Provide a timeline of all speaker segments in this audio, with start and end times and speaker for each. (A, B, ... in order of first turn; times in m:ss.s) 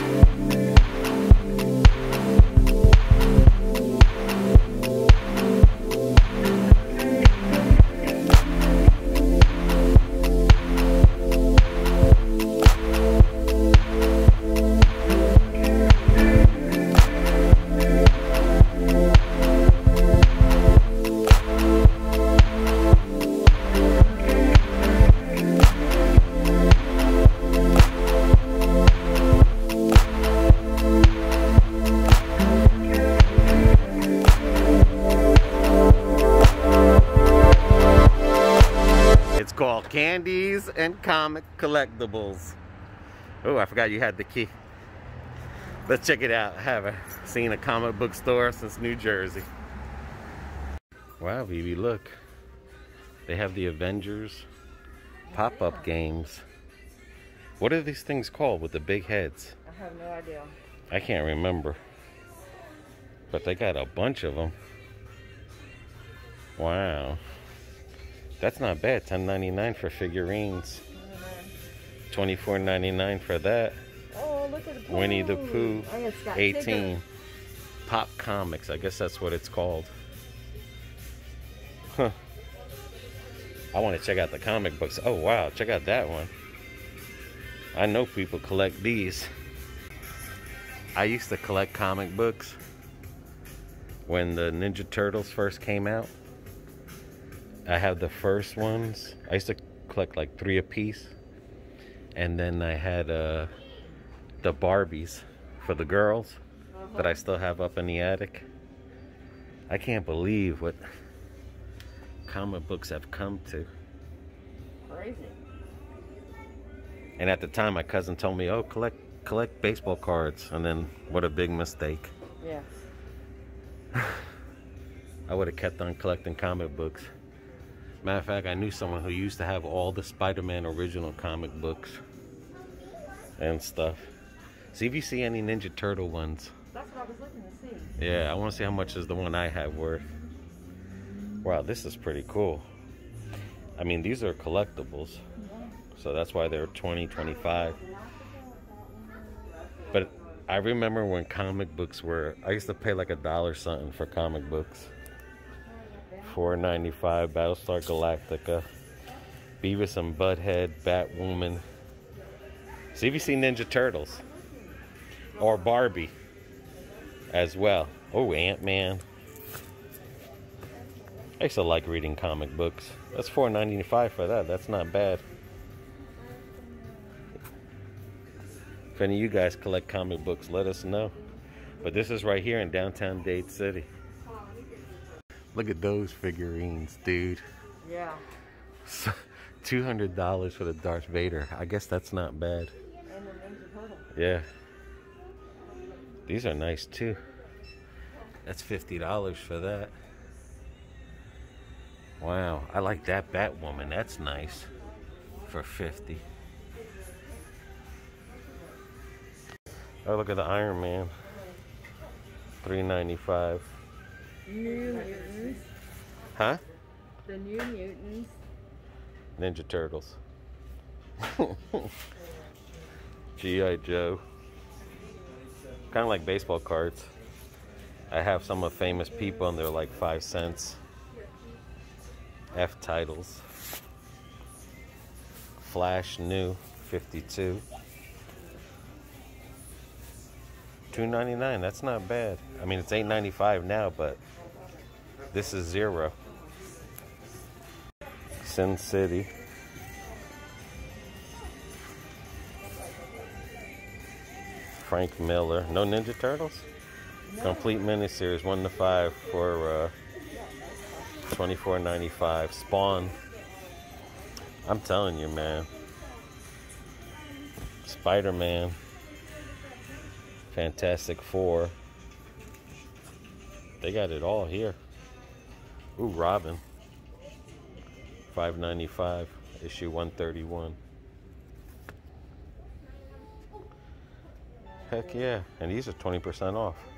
0:39.3-0:42.6 A
0:43.4-0:44.5 A
0:45.8-0:49.5 A
0:51.2-0:52.1 A
0:53.3-0:54.5 A
0:55.3-0:56.4 A
0:55.3-0:55.9 B
0:57.6-0:59.6 A
0:59.6-1:00.5 B
1:00.9-1:01.8 A
1:03.3-1:04.5 A
1:06.6-1:07.2 A
1:08.4-1:10.8 A
1:10.9-1:11.5 B
1:12.1-1:13.8 A
1:14.1-1:17.0 B
1:14.9-1:17.0 A
1:17.8-1:19.9 A
1:23.7-1:26.3 A
1:27.7-1:29.3 A
1:31.0-1:32.6 A
1:34.1-1:36.1 A
1:37.7-1:41.1 A
1:42.1-1:43.5 A
1:44.4-1:46.4 A
1:46.7-1:47.2 B
1:46.9-1:48.4 A
1:49.7-1:50.8 A
1:52.2-1:53.7 A
1:54.9-1:55.4 B
1:57.2-2:02.1 A
2:02.4-2:02.7 B
2:05.3-2:07.1 A
2:08.0-2:12.0 A
2:13.4-2:14.1 A
2:14.7-2:16.5 A
2:16.7-2:17.9 B
2:18.0-2:20.1 A
2:21.4-2:22.6 A
2:23.8-2:25.2 A
2:25.4-2:25.8 B
2:25.9-2:27.8 A
2:27.4-2:29.9 B
2:29.9-2:34.9 A
2:35.9-2:36.5 B
2:36.2-2:38.6 A
2:39.6-2:41.6 A
2:42.9-2:44.2 A
2:45.4-2:46.1 A
2:47.3-2:49.0 A
2:51.4-2:55.2 A
2:56.4-2:57.3 B
2:58.9-3:01.1 A
3:01.8-3:03.9 A
3:05.5-3:07.4 A
3:07.8-3:08.2 B
3:08.8-3:12.7 A
3:13.1-3:14.1 B
3:14.1-3:14.5 A
3:16.3-3:17.2 A
3:18.4-3:19.9 A
3:22.2-3:24.7 A
3:25.5-3:26.2 A
3:30.0-3:31.1 A
3:32.6-3:33.7 A
3:34.4-3:35.6 B
3:36.3-3:36.6 A
3:37.2-3:38.4 B
3:39.4-3:40.2 A
3:41.2-3:41.9 A
3:43.4-3:44.2 A
3:45.9-3:47.1 A
3:48.1-3:50.8 A
3:52.5-3:53.4 A
3:55.6-3:57.6 A
4:00.9-4:04.2 A
4:05.3-4:06.1 A
4:08.4-4:09.3 A
4:14.8-4:16.6 A
4:17.3-4:17.8 B
4:17.4-4:19.9 A
4:21.2-4:23.2 A
4:24.6-4:25.7 A
4:27.8-4:28.8 A
4:30.5-4:31.7 A
4:33.8-4:34.8 A
4:36.0-4:36.6 A
4:38.3-4:40.8 A
4:44.9-4:46.9 A